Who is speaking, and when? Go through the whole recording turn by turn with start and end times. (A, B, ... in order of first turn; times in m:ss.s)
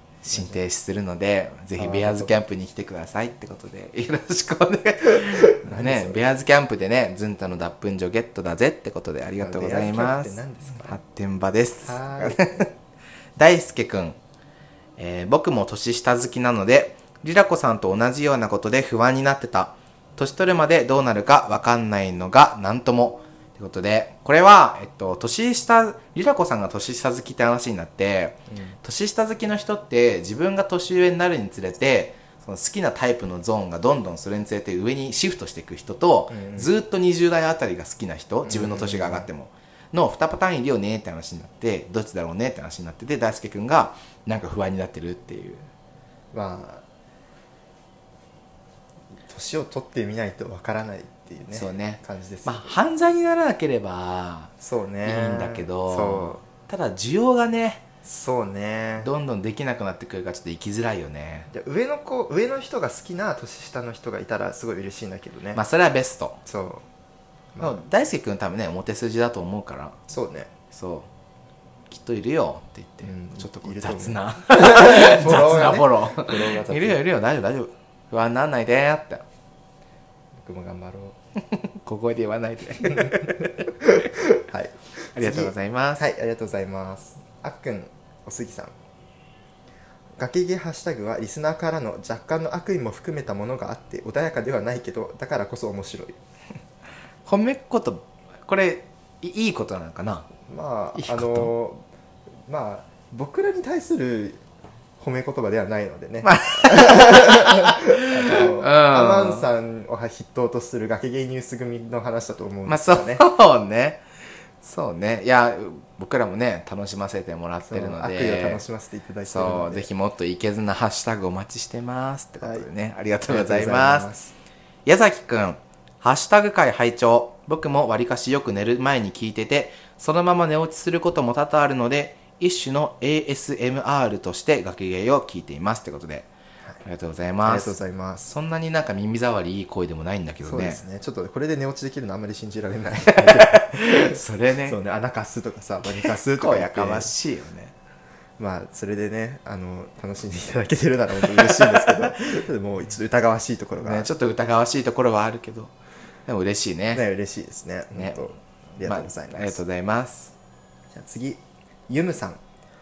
0:00.2-0:12.7 A
0:00.3-0:00.6 B
0:01.8-0:02.3 B
0:05.6-0:06.2 B
0:09.4-0:11.0 B
0:11.8-0:12.7 B
0:13.4-0:14.2 A
0:15.0-0:45.7 A
0:28.5-0:28.8 B
0:36.3-0:36.7 B
0:38.4-0:39.3 B
0:46.3-0:46.8 B
0:49.3-0:52.7 B
0:51.5-0:54.5 A
0:54.6-0:56.4 B
0:55.0-0:57.8 A
0:58.0-0:59.1 B
0:59.0-1:01.5 A
1:01.5-1:05.6 B
1:05.6-1:06.4 A
1:06.5-1:06.8 B
1:07.6-1:07.8 B
1:07.6-1:10.0 A
1:10.1-1:10.5 B
1:10.7-1:11.1 A
1:11.9-1:19.2 A
1:13.0-1:17.0 B
1:20.4-1:21.2 B
1:21.5-1:23.5 A
1:22.9-1:28.7 B
1:25.2-1:26.1 A
1:30.2-1:36.2 B
1:37.2-1:40.3 A
1:40.5-1:41.8 B
1:41.0-1:41.5 A
1:42.5-1:44.4 B
1:45.0-1:53.2 B
1:46.2-1:49.5 A
1:52.7-1:54.0 A
1:54.6-1:58.6 A
1:57.7-1:59.9 B
1:59.3-2:04.1 A
2:02.4-2:02.7 B
2:03.3-2:04.3 B
2:04.9-2:16.3 A
2:16.8-2:20.8 A
2:17.4-2:18.3 B
2:20.4-2:27.1 B
2:23.2-2:24.8 A
2:25.9-2:27.7 A
2:28.4-2:34.1 B
2:31.2-2:32.1 A
2:33.8-2:35.7 A
2:36.3-2:37.0 A
2:36.9-2:39.6 B
2:37.9-2:38.3 A
2:38.8-2:40.3 A
2:40.9-2:42.4 B